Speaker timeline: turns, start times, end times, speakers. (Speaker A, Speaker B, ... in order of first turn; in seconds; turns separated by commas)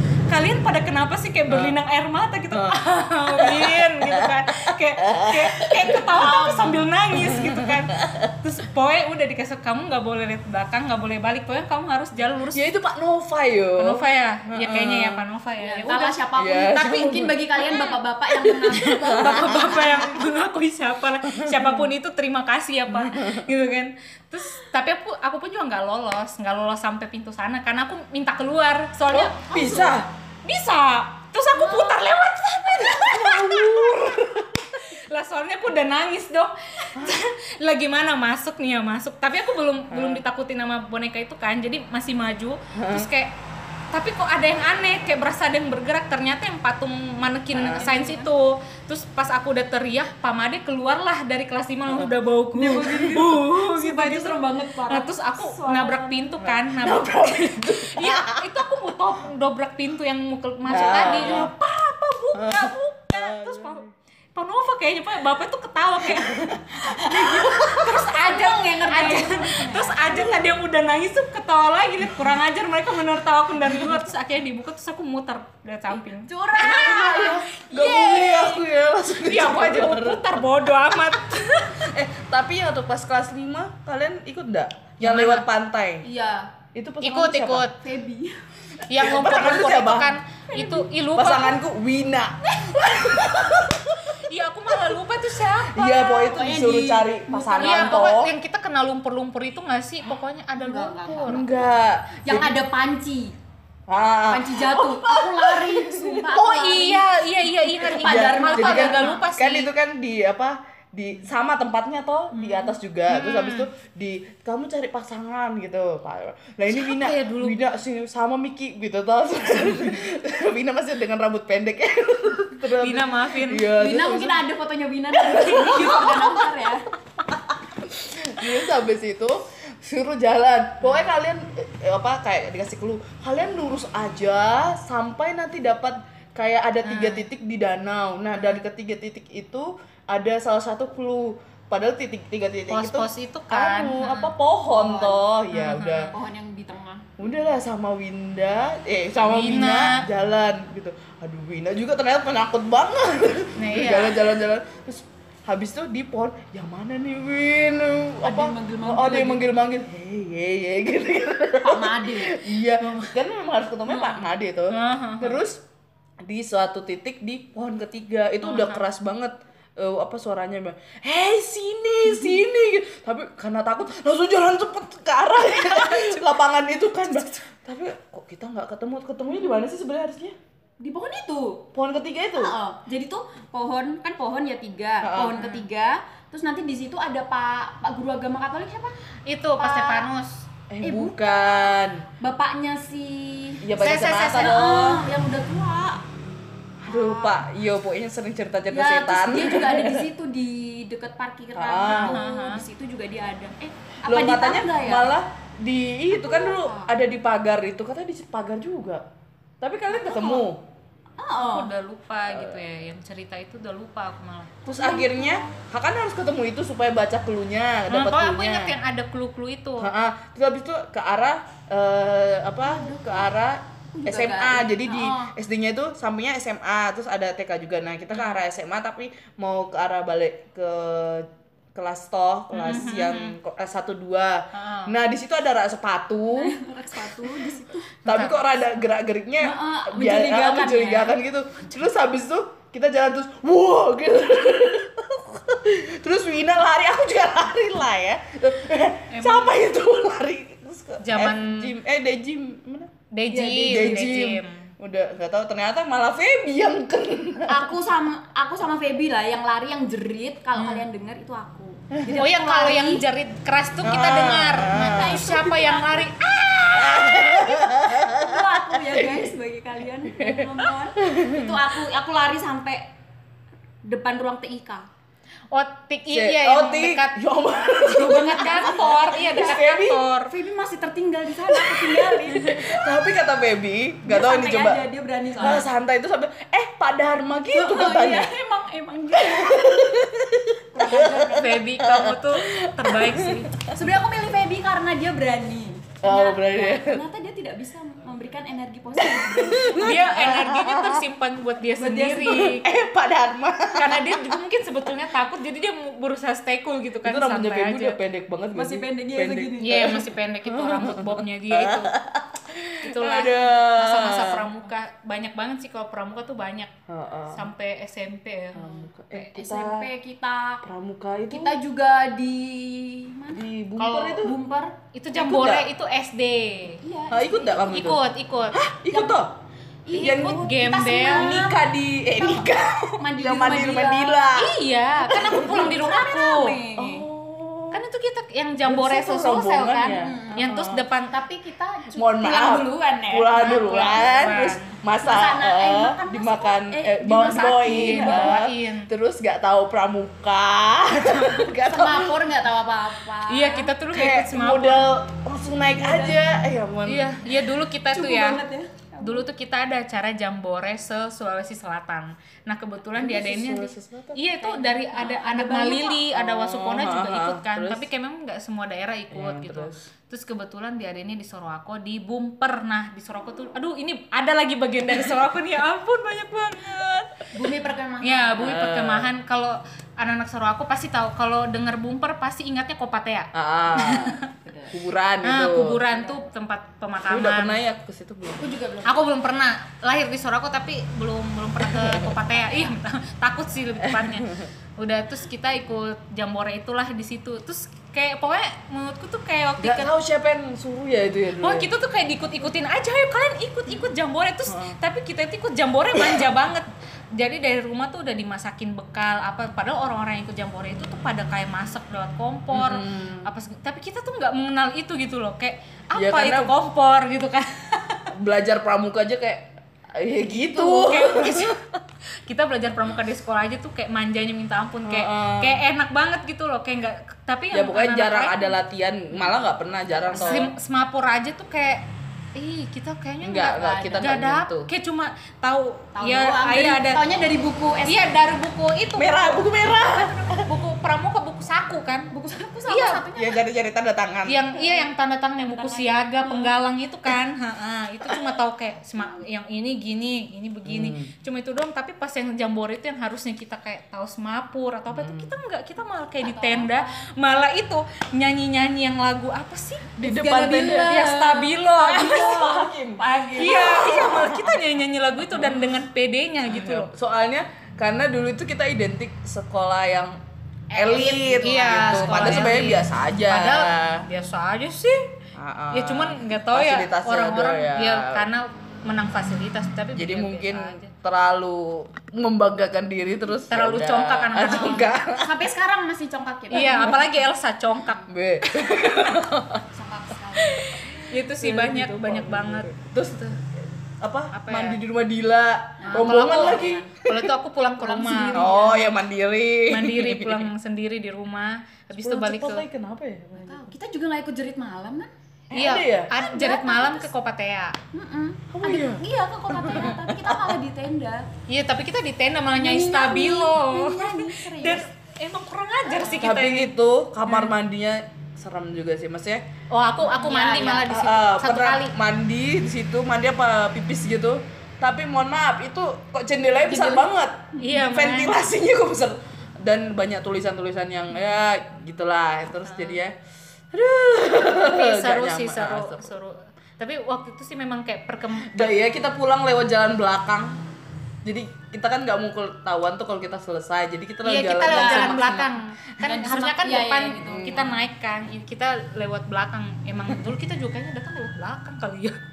Speaker A: 0.3-12.7, Speaker B: 1.5-1.7, Speaker B: 2.5-8.3, Speaker B: 12.5-15.2, Speaker A: 13.8-16.2, Speaker C: 15.6-20.0, Speaker B: 16.3-17.4, Speaker A: 17.6-18.0, Speaker B: 18.4-20.1, Speaker A: 19.1-29.4, Speaker B: 21.3-21.9, Speaker B: 22.9-23.5, Speaker C: 29.1-30.0, Speaker B: 29.4-30.1, Speaker A: 30.4-43.3, Speaker C: 31.6-32.0, Speaker B: 32.7-34.8, Speaker B: 39.9-40.2, Speaker B: 42.7-43.1, Speaker A: 43.9-78.3, Speaker B: 47.5-47.9, Speaker C: 47.7-48.3, Speaker C: 52.5-56.3, Speaker B: 56.4-58.5, Speaker B: 60.7-61.5, Speaker C: 61.0-61.5, Speaker B: 62.3-63.9, Speaker B: 66.0-67.9, Speaker C: 67.0-69.9, Speaker B: 73.7-73.9, Speaker C: 76.2-78.6, Speaker B: 76.7-80.4, Speaker A: 79.2-81.8, Speaker B: 81.6-86.1, Speaker A: 85.0-85.5, Speaker C: 86.0-86.5, Speaker B: 86.7-87.7, Speaker A: 87.0-87.8, Speaker C: 87.8-88.4, Speaker B: 88.8-95.0, Speaker A: 88.9-91.6, Speaker C: 92.6-93.3, Speaker A: 94.0-96.3, Speaker B: 95.6-98.3, Speaker C: 95.9-98.1, Speaker A: 97.6-101.4, Speaker C: 100.5-101.7, Speaker B: 101.2-102.7, Speaker C: 102.2-103.3, Speaker B: 103.9-106.4, Speaker C: 104.3-107.0, Speaker A: 106.3-109.7, Speaker B: 107.7-124.5, Speaker C: 107.8-109.2, Speaker C: 112.4-112.7, Speaker A: 113.1-113.7, Speaker A: 116.7-117.6, Speaker A: 122.7-123.7, Speaker C: 123.7-126.8, Speaker B: 125.1-126.6, Speaker B: 127.3-146.1, Speaker A: 136.8-137.2, Speaker A: 142.7-144.3, Speaker C: 144.7-145.2, Speaker A: 145.5-146.1, Speaker C: 146.1-147.1, Speaker B: 147.2-165.6, Speaker A: 149.2-150.0, Speaker A: 153.6-154.2, Speaker C: 158.2-159.4, Speaker C: 161.6-162.4, Speaker A: 162.8-163.1, Speaker A: 163.9-165.4, Speaker B: 166.2-180.3, Speaker A: 168.4-168.8, Speaker A: 175.6-176.2, Speaker C: 179.4-179.7, Speaker C: 180.8-181.7, Speaker B: 181.7-182.5, Speaker C: 182.3-188.9, Speaker B: 185.0-185.4, Speaker A: 185.3-185.7, Speaker A: 189.3-190.4, Speaker C: 189.6-190.1, Speaker B: 190.7-192.1, Speaker C: 190.8-193.6, Speaker B: 193.6-195.0, Speaker A: 193.8-194.6, Speaker C: 194.3-196.0, Speaker B: 196.8-200.1, Speaker C: 196.9-197.4, Speaker C: 198.7-205.1, Speaker B: 201.5-202.2, Speaker A: 201.9-202.6, Speaker B: 204.1-209.0, Speaker C: 206.1-206.9, Speaker B: 209.6-210.6, Speaker C: 209.9-210.4, Speaker C: 211.2-211.7, Speaker A: 211.4-214.6, Speaker B: 212.3-212.6, Speaker C: 214.6-215.6, Speaker B: 214.7-218.7, Speaker A: 217.9-219.9, Speaker B: 219.8-236.6, Speaker C: 222.6-223.3, Speaker C: 223.9-225.3, Speaker A: 232.5-233.3, Speaker A: 234.5-234.9, Speaker C: 236.3-238.0, Speaker A: 238.0-238.6, Speaker B: 238.1-252.9, Speaker C: 239.4-241.1, Speaker A: 249.1-249.5, Speaker A: 251.0-251.7, Speaker A: 253.1-254.7, Speaker C: 253.3-254.1, Speaker B: 253.7-257.7, Speaker C: 257.5-263.0, Speaker A: 260.6-260.8, Speaker A: 262.1-267.3, Speaker B: 263.8-265.4, Speaker C: 264.8-266.1, Speaker B: 266.6-269.3, Speaker C: 267.4-272.9, Speaker B: 270.1-271.6, Speaker C: 273.8-274.9, Speaker A: 275.5-277.2, Speaker B: 276.1-280.1, Speaker C: 277.9-279.6, Speaker A: 277.9-280.3, Speaker C: 280.3-282.9, Speaker B: 281.5-284.8, Speaker C: 284.0-285.7, Speaker B: 285.4-288.3, Speaker C: 287.5-289.8, Speaker B: 289.1-293.9, Speaker C: 290.7-291.6, Speaker A: 291.3-293.5, Speaker C: 293.7-300.1, Speaker B: 296.0-297.0, Speaker B: 298.9-301.0, Speaker A: 299.8-302.7, Speaker C: 301.8-302.6, Speaker B: 302.3-304.4, Speaker A: 303.7-308.0, Speaker B: 307.0-314.5, Speaker C: 308.5-310.0, Speaker A: 309.6-311.9, Speaker A: 312.8-316.7, Speaker B: 316.9-317.4, Speaker A: 317.3-319.3, Speaker B: 318.5-319.9, Speaker C: 318.6-320.6, Speaker B: 320.6-321.6, Speaker C: 321.3-324.8, Speaker B: 323.3-324.4, Speaker A: 323.8-324.1, Speaker A: 324.9-326.8, Speaker B: 325.1-325.7, Speaker C: 326.8-327.8, Speaker B: 327.1-329.3, Speaker A: 327.7-328.6, Speaker C: 328.9-329.2, Speaker C: 329.9-331.7, Speaker B: 329.9-330.5, Speaker A: 330.0-331.4, Speaker B: 331.1-334.6, Speaker C: 332.2-337.1, Speaker A: 334.7-336.6, Speaker B: 335.1-335.8, Speaker B: 336.7-337.8, Speaker A: 337.7-341.2, Speaker B: 338.6-340.9, Speaker C: 339.8-340.5, Speaker C: 341.1-344.0, Speaker B: 341.9-352.2, Speaker A: 343.3-344.8, Speaker C: 345.0-348.4, Speaker A: 347.6-348.9, Speaker C: 351.6-353.7, Speaker A: 353.3-354.9, Speaker B: 353.9-357.2, Speaker C: 355.8-356.5, Speaker A: 356.9-358.4, Speaker C: 357.9-359.2, Speaker A: 359.0-377.3, Speaker B: 362.9-364.3, Speaker C: 364.5-366.0, Speaker B: 366.1-367.9, Speaker B: 369.1-369.8, Speaker C: 377.3-378.5, Speaker A: 378.0-384.3, Speaker B: 378.4-379.1, Speaker B: 383.3-385.8, Speaker C: 384.4-384.7, Speaker A: 385.2-387.6, Speaker C: 385.9-386.2, Speaker B: 387.1-388.5, Speaker C: 388.4-389.1, Speaker A: 388.8-399.9, Speaker B: 391.6-392.1, Speaker C: 392.3-392.7, Speaker B: 393.8-394.5, Speaker B: 399.6-401.7, Speaker A: 401.4-418.1, Speaker B: 404.5-404.8, Speaker B: 405.9-406.3, Speaker B: 412.5-413.3, Speaker B: 415.9-416.5, Speaker B: 418.1-421.6, Speaker A: 420.3-421.6, Speaker A: 422.2-428.6, Speaker B: 424.8-425.6, Speaker B: 427.5-430.5, Speaker C: 430.1-430.4, Speaker A: 430.1-437.0, Speaker B: 433.2-434.7, Speaker C: 433.6-434.1, Speaker C: 435.9-438.1, Speaker A: 437.9-439.5, Speaker B: 438.9-440.5, Speaker A: 440.4-442.1, Speaker C: 442.1-443.4, Speaker A: 442.7-443.0, Speaker B: 443.1-444.4, Speaker A: 444.2-460.0, Speaker C: 444.5-446.5, Speaker C: 448.9-449.2, Speaker B: 450.6-451.1, Speaker B: 454.9-455.3, Speaker C: 456.2-457.1, Speaker B: 460.0-461.0, Speaker C: 460.0-464.1, Speaker A: 460.7-462.4, Speaker B: 462.0-464.6, Speaker A: 463.3-466.9, Speaker B: 465.3-465.7, Speaker B: 466.4-470.2, Speaker C: 470.7-472.6, Speaker B: 470.7-474.1, Speaker A: 471.4-475.1, Speaker B: 475.3-478.2, Speaker A: 475.7-480.9, Speaker B: 479.9-485.5, Speaker A: 483.5-484.9, Speaker C: 484.4-487.1, Speaker A: 486.5-488.1, Speaker B: 486.6-486.9, Speaker B: 488.1-489.6, Speaker C: 489.7-490.7, Speaker B: 490.4-497.3, Speaker A: 491.1-493.4, Speaker A: 494.3-494.8, Speaker C: 495.8-496.9, Speaker A: 495.9-498.5, Speaker C: 497.8-499.0, Speaker B: 498.3-500.5, Speaker A: 499.7-502.6, Speaker B: 501.9-503.7, Speaker C: 503.4-505.1, Speaker B: 505.5-506.1, Speaker A: 505.5-507.8, Speaker C: 506.1-507.1, Speaker C: 507.9-511.3, Speaker B: 508.5-510.6, Speaker A: 511.5-516.7, Speaker C: 512.6-514.8, Speaker C: 515.9-516.3, Speaker B: 516.2-519.4, Speaker A: 517.2-517.5, Speaker A: 519.7-521.9, Speaker C: 520.0-520.9, Speaker B: 520.9-533.1, Speaker C: 526.6-527.8, Speaker A: 527.6-528.3, Speaker A: 532.6-533.0, Speaker B: 533.7-536.1, Speaker A: 534.6-538.8, Speaker B: 538.4-540.6, Speaker B: 541.2-545.6, Speaker A: 544.2-552.2, Speaker C: 544.6-545.3, Speaker C: 546.0-547.7, Speaker B: 547.2-547.8